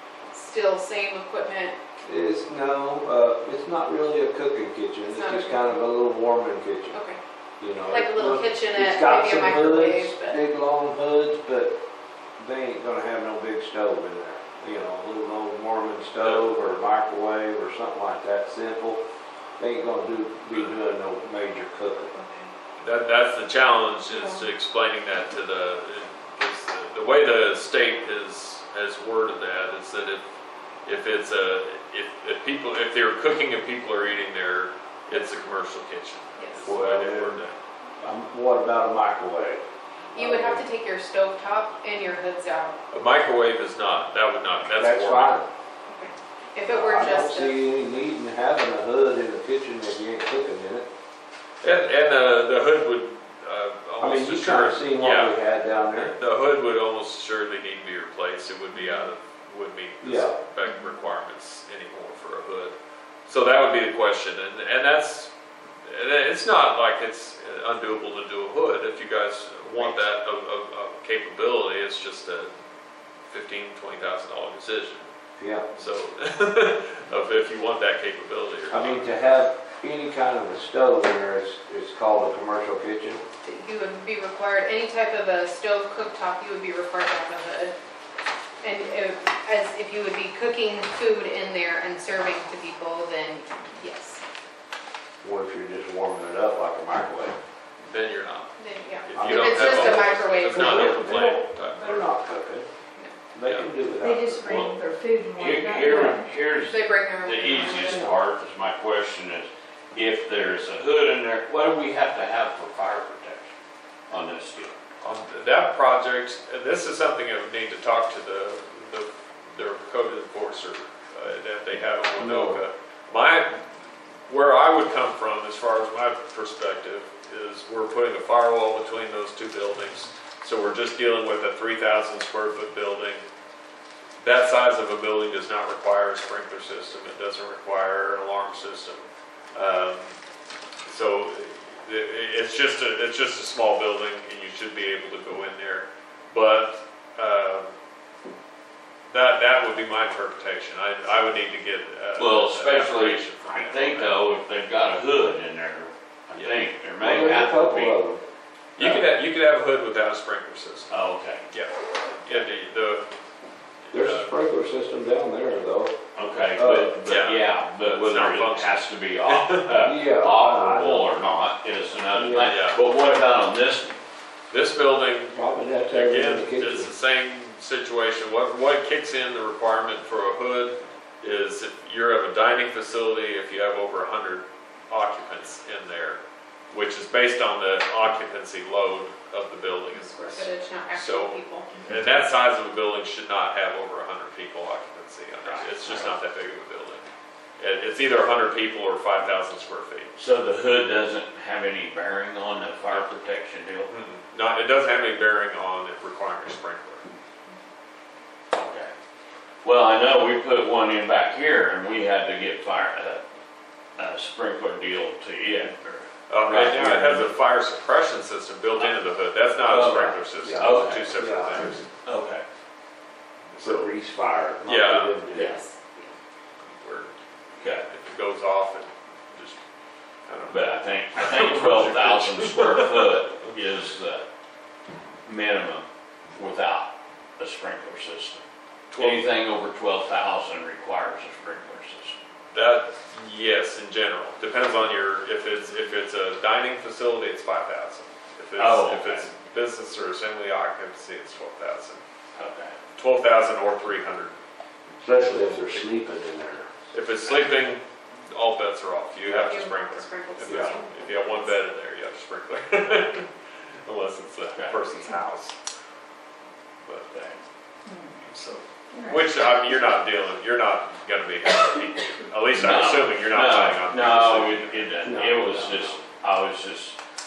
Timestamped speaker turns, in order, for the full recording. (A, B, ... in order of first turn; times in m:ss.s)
0:00.3-0:01.8 A
0:02.0-0:07.0 B
0:05.0-0:05.8 A
0:06.9-0:07.2 A
0:07.6-0:11.8 B
0:07.9-0:10.4 A
0:12.4-0:19.0 B
0:19.6-0:22.1 B
0:22.1-0:22.5 A
0:22.8-0:30.2 C
0:24.1-0:24.4 A
0:30.8-0:37.6 C
0:36.4-0:36.6 A
0:36.6-0:37.4 B
0:38.0-0:40.6 B
0:40.1-0:42.8 A
0:42.9-0:45.4 C
0:44.7-0:45.5 B
0:45.9-0:47.6 A
0:46.7-0:50.9 B
0:51.6-1:02.7 C
0:54.0-0:56.1 B
1:00.0-1:00.4 B
1:00.7-1:00.9 D
1:03.2-1:05.3 C
1:05.8-1:12.5 C
1:13.2-1:15.0 C
1:15.4-1:15.7 B
1:15.8-1:19.0 C
1:18.7-1:23.2 B
1:23.4-1:27.7 A
1:28.6-1:34.2 A
1:35.2-1:37.3 B
1:37.8-1:38.5 C
1:38.6-1:41.0 A
1:39.0-1:42.1 C
1:39.2-1:42.7 B
1:43.3-1:44.8 B
1:44.0-1:46.4 D
1:45.3-1:53.5 E
1:46.6-1:48.1 A
1:47.5-1:48.0 D
1:47.8-1:48.2 B
1:54.1-1:54.7 E
1:55.0-2:03.6 C
2:02.2-2:02.5 B
2:04.3-2:13.2 C
2:14.2-2:20.1 C
2:20.9-2:27.7 C
2:29.1-2:34.2 C
2:32.2-2:38.0 E
2:36.4-2:36.6 C
2:37.0-2:38.2 B
2:38.8-2:40.9 C
2:40.9-2:41.4 E
2:41.5-2:43.1 C
2:43.9-2:44.3 C
2:43.9-2:46.0 B
2:46.1-2:54.0 E
2:46.5-2:47.0 B
2:47.0-2:49.8 C
2:49.8-2:51.4 B
2:52.1-2:52.6 B
2:52.4-2:52.8 C
2:54.5-3:06.2 C
2:55.3-2:56.9 B
3:06.7-3:17.0 C
3:09.9-3:11.7 A
3:15.4-3:16.1 E
3:17.6-3:20.1 C
3:20.2-3:23.9 E
3:23.9-3:27.0 C
3:28.5-3:28.9 E
3:29.6-3:33.2 E
3:34.0-3:37.3 E
3:36.3-3:41.9 C
3:36.7-3:37.2 B
3:39.6-3:41.1 E
3:40.4-3:41.8 B
3:42.0-3:42.4 E
3:43.5-3:44.0 C
3:43.6-3:45.6 B
3:44.6-3:45.2 C
3:45.3-3:46.1 A
3:46.6-3:49.6 C
3:47.6-3:47.8 E
3:50.3-3:53.6 C
3:50.5-3:54.2 E
3:55.2-3:58.4 E
3:58.9-3:59.3 C
3:59.0-4:02.2 E
4:02.5-4:12.0 C
4:08.6-4:09.3 E
4:12.4-4:12.8 E
4:12.9-4:14.4 C
4:15.0-4:16.7 B
4:15.1-4:15.9 C
4:16.9-4:23.3 C
4:19.2-4:19.5 B
4:19.4-4:21.5 A
4:20.5-4:20.8 B
4:23.8-4:25.6 C
4:26.8-4:27.4 C
4:27.9-4:28.2 D
4:28.2-4:35.0 C
4:28.9-4:29.3 D
4:32.5-4:37.0 E
4:35.0-4:35.9 B